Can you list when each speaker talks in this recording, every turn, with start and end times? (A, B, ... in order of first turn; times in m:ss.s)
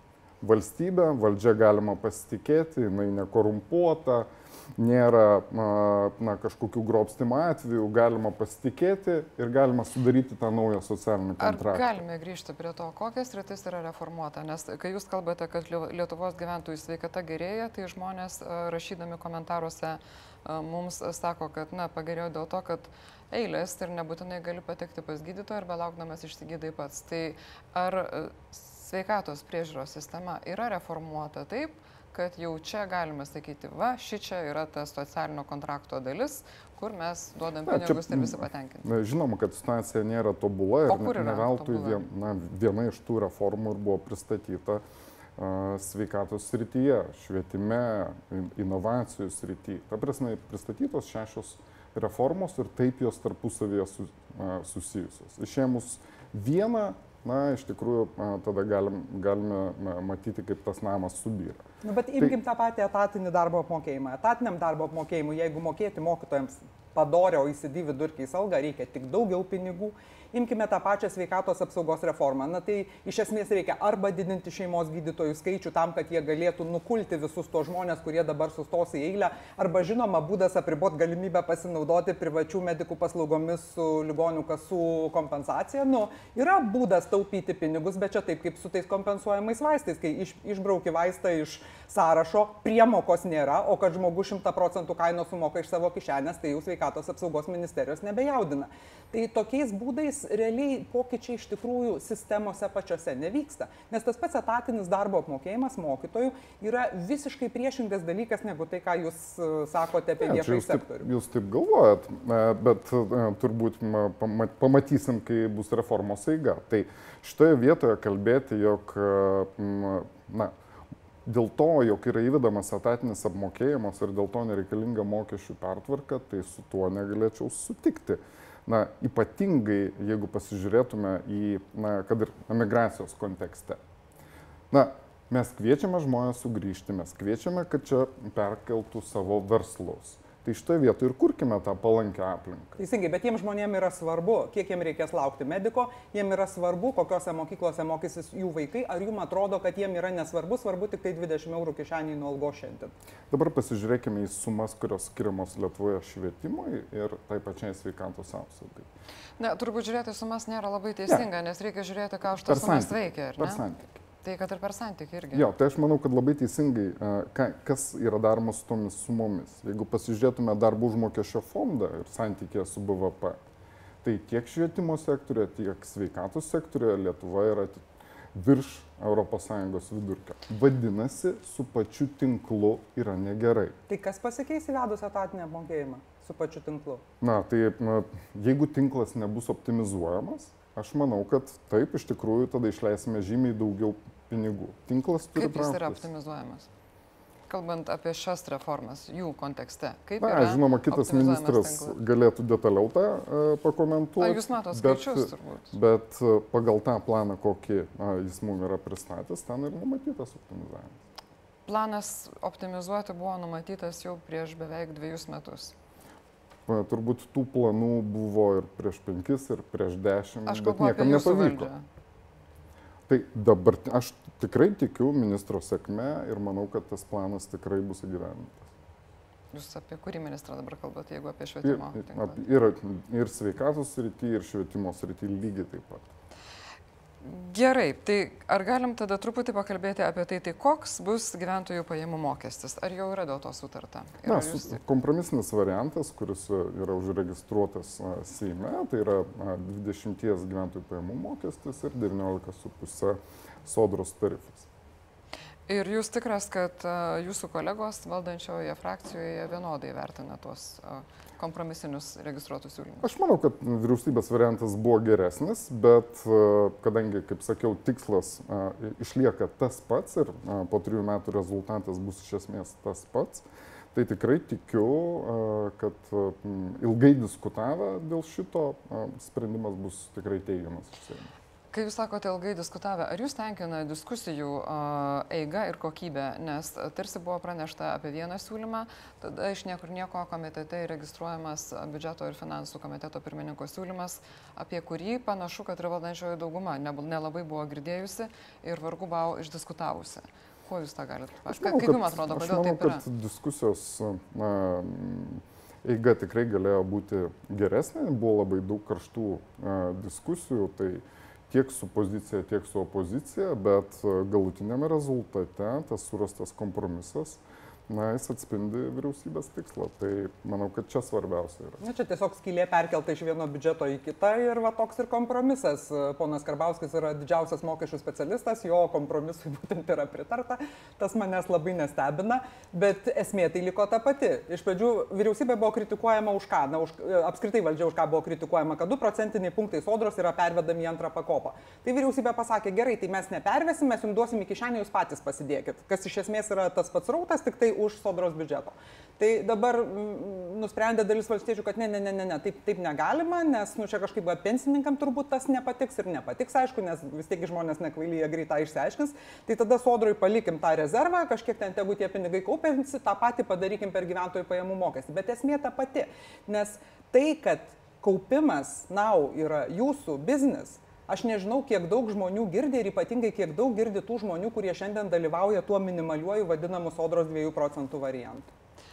0:00.4-0:12.0 A
0:11.4-0:38.9 B
0:37.7-0:44.8 A
0:40.9-0:42.0 B
0:45.4-1:01.6 A
1:01.8-1:51.1 C
1:50.2-2:00.5 A
2:01.2-2:13.8 A
2:14.7-2:22.8 A
2:22.8-2:32.9 C
2:33.3-2:38.9 A
2:39.4-2:43.6 B
2:42.5-2:44.0 A
2:44.2-2:45.5 B
2:45.3-2:53.4 A
2:54.0-2:57.8 A
2:58.3-3:03.8 A
3:03.9-3:07.0 C
3:07.2-3:16.1 A
3:15.4-3:16.7 B
3:17.5-3:22.0 B
3:20.2-3:31.0 A
3:24.2-3:25.7 B
3:31.7-3:35.8 B
3:36.7-3:41.7 A
3:40.5-3:41.8 B
3:43.1-3:48.7 A
3:49.5-3:52.4 B
3:51.6-3:56.1 A
3:57.2-4:04.8 B
4:04.3-4:14.7 A
4:15.7-4:23.1 B
4:23.0-4:41.3 A
4:41.7-5:03.0 B
5:01.5-5:21.8 A
5:21.8-6:18.5 C